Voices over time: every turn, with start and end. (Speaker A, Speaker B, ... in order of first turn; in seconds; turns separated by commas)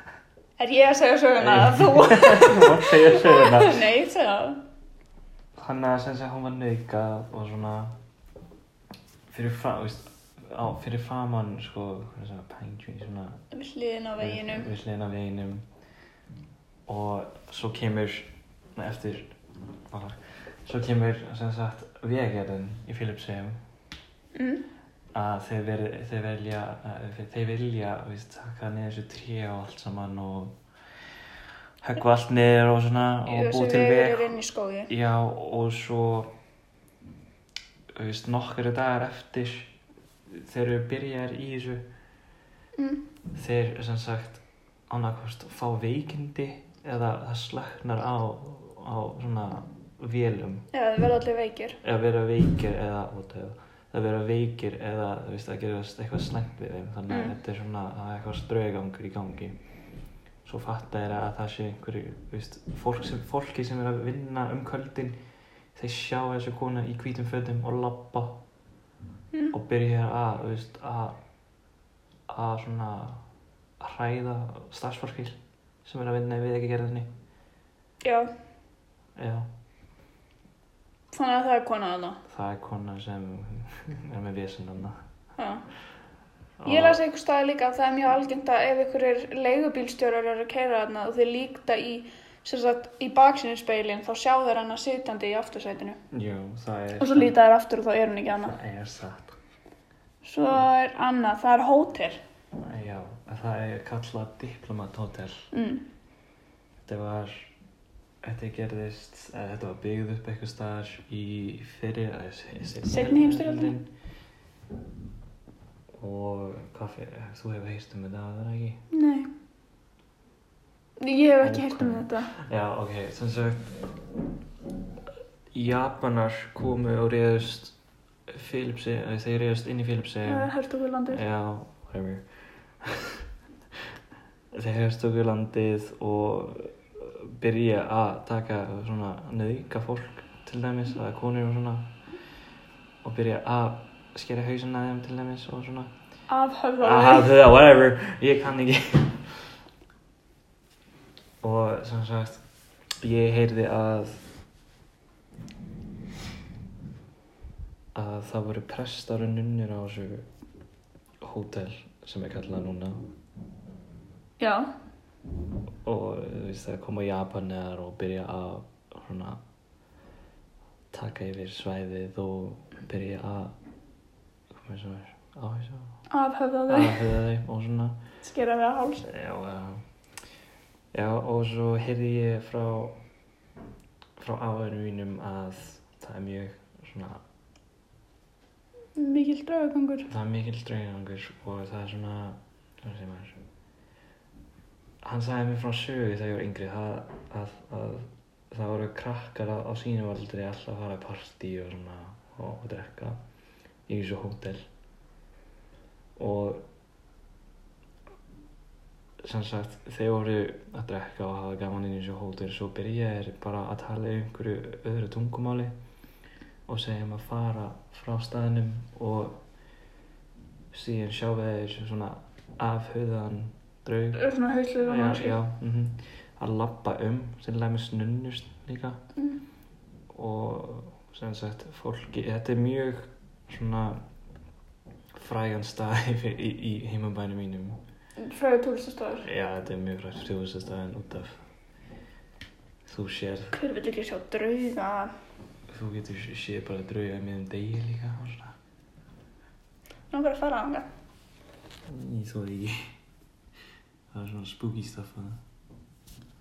Speaker A: 0.6-4.6, Speaker B: 1.4-3.9, Speaker B: 5.6-7.9, Speaker B: 9.3-13.4, Speaker A: 13.5-14.7, Speaker B: 14.2-15.7, Speaker B: 16.9-19.3, Speaker B: 19.9-23.6, Speaker A: 24.4-24.7, Speaker B: 25.1-30.6, Speaker B: 31.8-34.4, Speaker A: 33.3-34.9, Speaker B: 34.9-36.3, Speaker B: 38.0-39.7, Speaker B: 40.3-41.8, Speaker A: 42.8-43.1, Speaker B: 43.4-50.7, Speaker A: 50.7-51.8, Speaker B: 51.8-59.6, Speaker A: 57.1-57.4, Speaker B: 60.5-65.2, Speaker B: 65.8-68.4, Speaker B: 69.5-71.2, Speaker B: 72.3-73.2, Speaker B: 73.8-77.1, Speaker A: 78.0-78.3, Speaker B: 79.2-79.5, Speaker A: 81.1-82.2, Speaker B: 82.3-85.0, Speaker A: 85.4-85.6, Speaker B: 86.6-87.0, Speaker A: 86.7-96.0, Speaker B: 96.1-97.4, Speaker A: 97.0-98.5, Speaker B: 98.4-99.4, Speaker A: 100.2-102.2, Speaker B: 102.6-105.5, Speaker A: 105.5-105.9, Speaker B: 106.9-107.5, Speaker B: 108.2-113.9, Speaker A: 112.9-113.8, Speaker B: 116.0-118.8, Speaker A: 118.9-119.3, Speaker A: 121.0-122.3, Speaker B: 121.4-123.9, Speaker B: 125.5-127.8, Speaker B: 128.3-130.5, Speaker A: 130.2-131.2, Speaker B: 131.1-132.2, Speaker B: 132.8-133.2, Speaker B: 134.5-141.9, Speaker B: 143.0-145.9, Speaker A: 146.3-147.4, Speaker B: 146.8-149.3, Speaker B: 151.4-152.4, Speaker B: 153.0-154.2, Speaker B: 157.9-160.3, Speaker B: 161.2-163.0, Speaker A: 164.4-164.7, Speaker B: 165.8-169.4, Speaker B: 170.9-173.6, Speaker B: 174.5-176.0, Speaker A: 176.1-177.1, Speaker B: 176.7-178.0, Speaker A: 178.2-179.1, Speaker B: 179.1-179.8, Speaker B: 180.9-183.0, Speaker B: 184.2-187.2, Speaker A: 189.0-190.1, Speaker B: 190.1-193.4, Speaker B: 195.0-203.2, Speaker B: 203.9-204.7, Speaker B: 206.2-206.6, Speaker B: 209.2-215.7, Speaker B: 216.7-219.4, Speaker B: 220.7-224.2, Speaker A: 224.1-225.4, Speaker B: 224.8-229.0, Speaker B: 230.1-234.0, Speaker B: 235.2-237.8, Speaker A: 238.2-239.3, Speaker B: 239.2-241.4, Speaker B: 242.9-243.6, Speaker A: 243.5-245.1, Speaker B: 245.7-248.6, Speaker A: 250.1-250.9, Speaker B: 251.9-252.9, Speaker B: 254.1-255.4